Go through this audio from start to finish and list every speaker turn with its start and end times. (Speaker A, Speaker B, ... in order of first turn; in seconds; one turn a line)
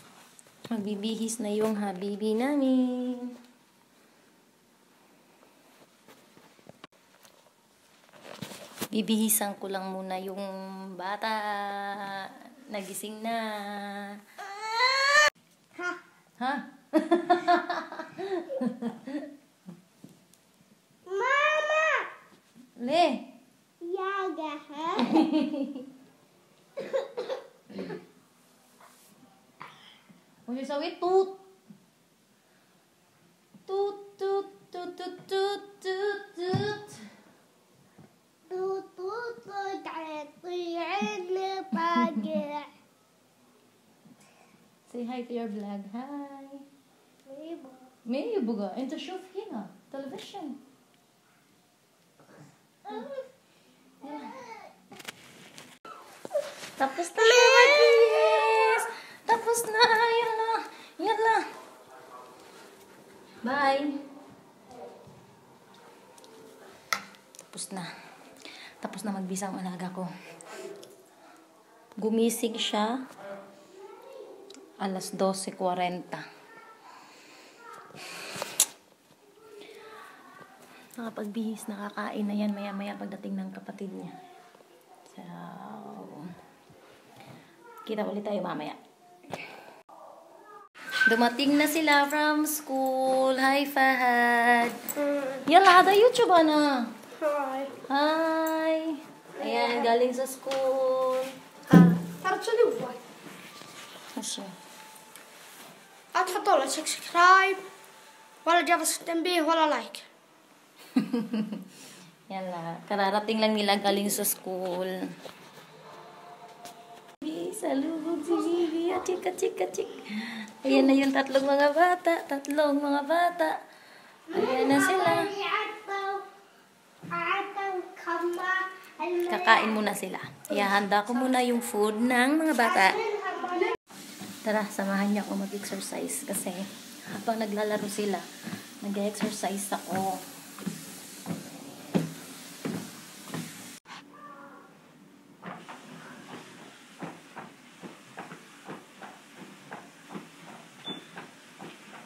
Speaker A: 0.7-3.3
Speaker A: 8.9-14.5
Speaker A: 16.4-19.3
Speaker B: 21.1-22.1
Speaker A: 22.8-23.3
Speaker B: 23.8-25.2
Speaker A: 25.0-25.8
Speaker A: 30.5-31.4
Speaker A: 33.7-37.1
Speaker B: 38.5-42.7
Speaker A: 41.8-42.4
Speaker A: 44.9-46.6
Speaker B: 47.3-47.9
Speaker A: 48.1-50.6
Speaker A: 54.0-54.4
Speaker A: 56.8-61.4
Speaker B: 57.6-58.1
Speaker A: 63.4-63.9
Speaker A: 67.4-67.9
Speaker A: 68.8-70.1
Speaker A: 72.0-73.0
Speaker A: 74.8-76.2
Speaker A: 81.0-84.2
Speaker A: 85.1-86.3
Speaker A: 87.8-88.8
Speaker A: 91.1-96.9
Speaker B: 97.2-97.8
Speaker A: 97.9-101.3
Speaker B: 101.7-103.0
Speaker A: 104.1-104.5
Speaker B: 106.1-107.7
Speaker B: 108.4-110.1
Speaker A: 110.9-111.7
Speaker A: 112.3-115.0
Speaker A: 117.2-123.6
Speaker A: 124.3-125.3
Speaker B: 124.4-126.3
Speaker B: 127.1-129.4
Speaker A: 129.2-133.0
Speaker B: 132.9-133.7
Speaker A: 134.4-138.2
Speaker A: 138.8-140.2